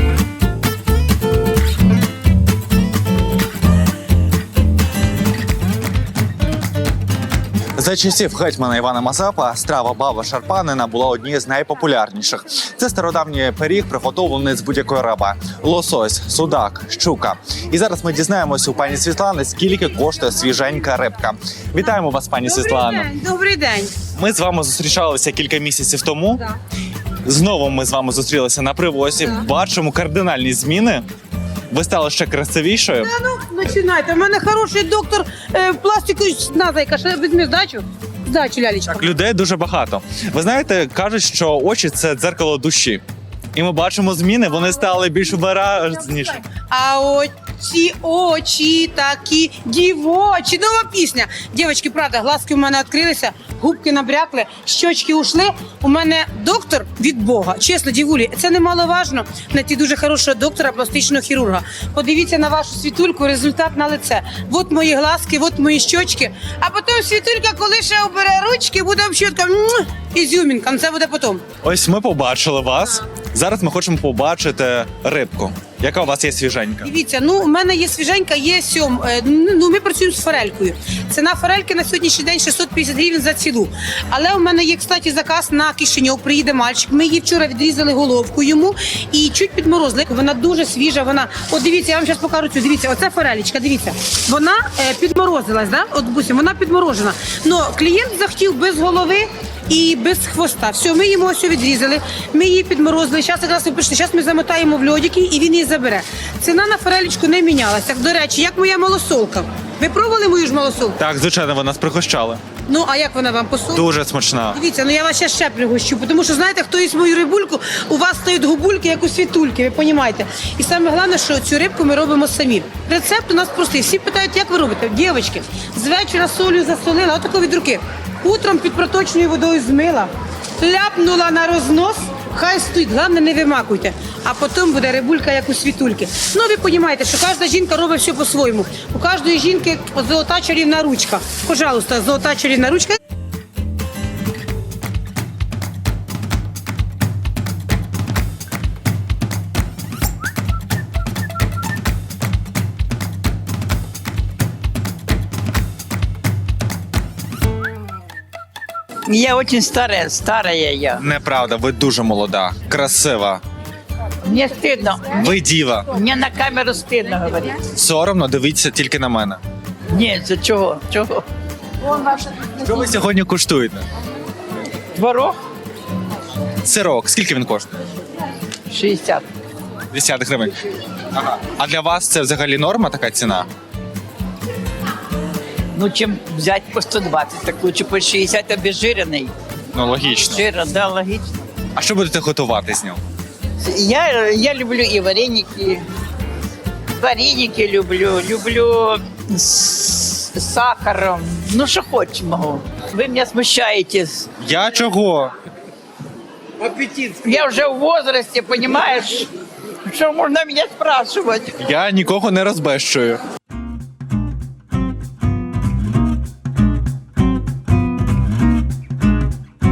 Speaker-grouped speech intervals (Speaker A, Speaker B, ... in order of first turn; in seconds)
Speaker A: 7.8-23.1, 24.1-26.5, 27.2-31.1, 31.7-33.1, 38.9-43.0, 43.5-46.4, 71.6-76.9, 111.0-112.4, 113.7-114.6, 161.0-163.4, 165.1-165.9, 167.7-169.4, 172.5-173.9, 176.6-177.8, 179.9-180.6, 181.1-183.5, 189.7-190.5, 191.8-193.0, 204.4-205.3, 211.6-213.2
Speaker B: 22.4-23.9, 33.0-39.1, 46.7-71.4, 76.8-111.0, 112.7-113.9, 114.5-143.0
Speaker C: 159.1-161.0, 164.2-165.3, 165.9-167.6, 169.9-171.2, 174.9-175.4, 178.7-179.3, 185.8-189.3, 190.2-191.4, 193.6-195.8, 197.0-204.3, 206.8-209.3, 209.9-211.6